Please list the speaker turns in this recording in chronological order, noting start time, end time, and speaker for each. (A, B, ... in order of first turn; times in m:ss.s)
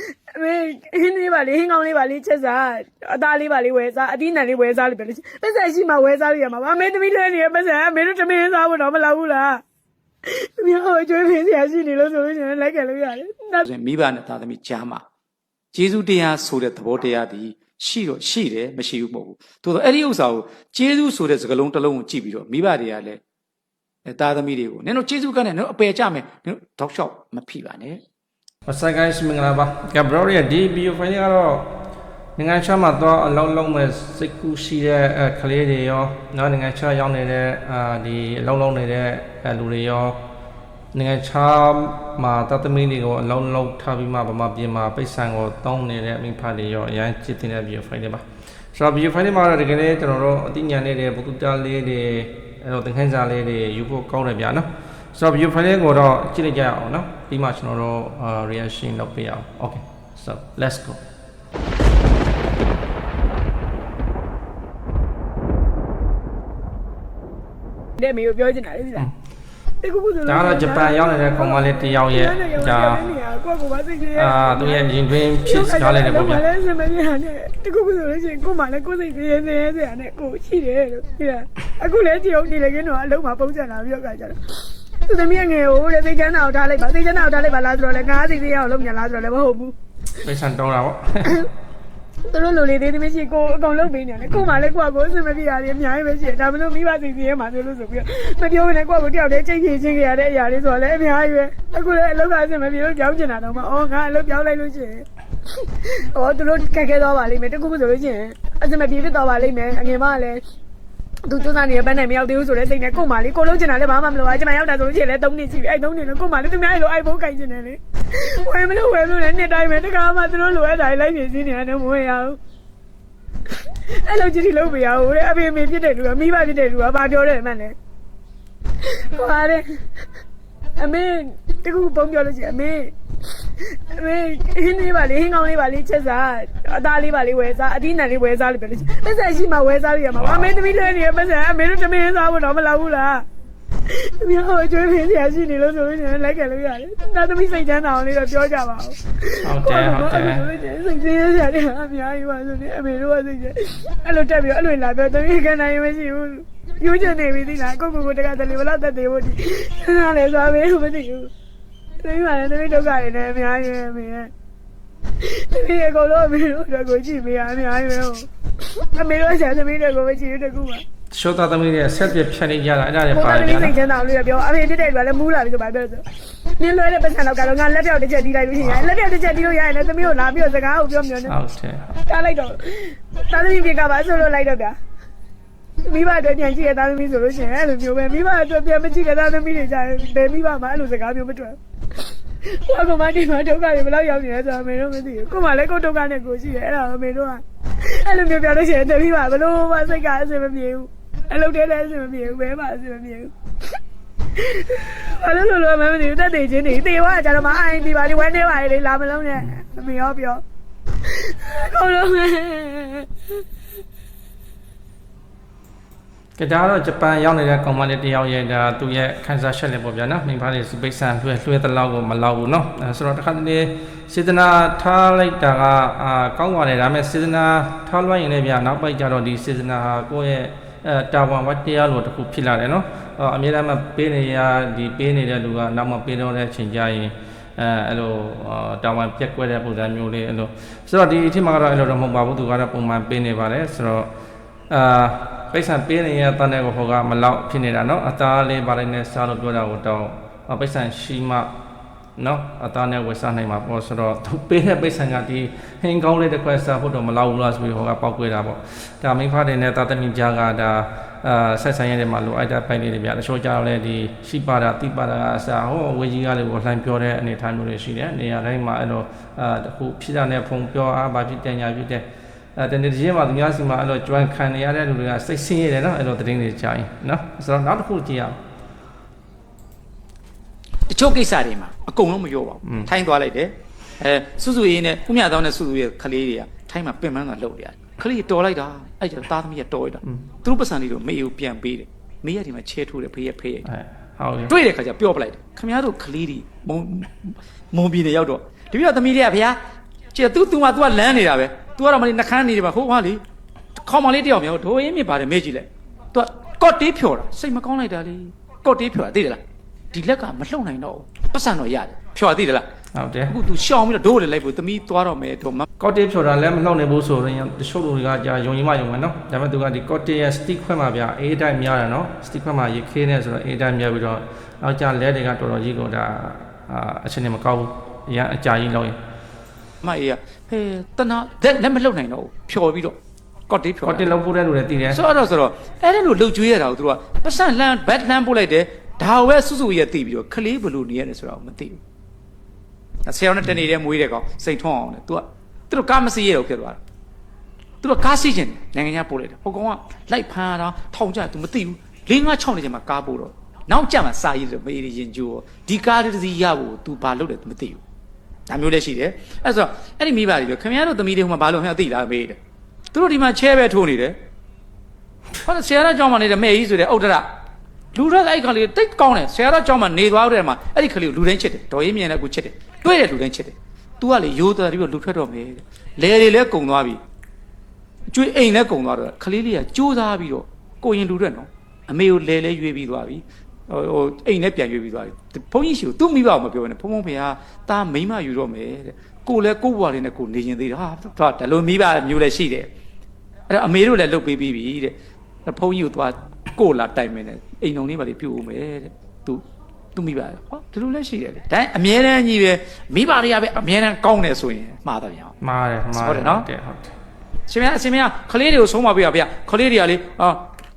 0:00.3-0:09.6 A
0:10.2-0:13.6 A
0:13.6-0:15.0 B
0:15.7-0:23.2 B
0:24.0-0:28.0 B
0:28.7-0:31.8 C
0:32.4-0:40.2 C
0:40.9-0:48.2 C
0:48.7-1:01.0 C
1:08.0-1:09.1 A
1:09.8-1:14.8 A
1:10.3-1:13.0 C
1:14.2-1:16.4 C
1:15.4-1:29.8 A
1:30.2-1:31.4 C
1:32.3-1:45.1 A
1:45.6-1:50.4 A
1:51.2-2:02.4 A
2:03.9-2:07.8 A
2:08.8-2:09.8 A
2:10.8-2:23.2 A
2:20.2-2:20.5 C
2:23.9-2:41.3 A
2:29.4-2:30.5 C
2:42.0-2:44.3 A
2:45.2-2:50.8 A
2:51.1-2:53.7 C
2:53.1-3:01.3 A
3:01.2-3:02.0 C
3:02.0-3:04.8 A
3:05.8-3:11.6 A
3:12.4-3:23.3 A
3:24.3-3:30.4 A
3:31.0-3:33.1 A
3:36.4-4:04.1 C
4:04.7-4:11.5 C
4:12.2-4:32.0 C
4:32.6-4:38.4 C
4:40.9-4:53.7 B
4:42.6-4:42.9 C
4:53.6-4:54.6 C
4:54.5-4:59.6 B
5:00.1-5:03.2 B
5:03.8-5:12.7 B
5:12.9-5:13.4 C
5:13.3-5:15.6 B
5:15.8-5:29.0 C
5:29.8-5:33.0 B
5:33.5-5:34.1 B
5:33.8-5:35.0 C
5:34.9-5:41.8 B
5:43.1-5:46.8 B
5:47.8-5:57.8 B
5:58.5-6:02.4 B
6:02.9-6:04.2 B
6:05.4-6:07.3 B
6:07.9-6:17.0 B
6:18.1-6:32.7 B
6:33.5-6:34.9 B
6:35.4-6:39.4 B
6:40.0-6:45.3 B
6:45.4-6:47.0 C
6:45.9-6:46.5 B
6:47.5-6:50.5 B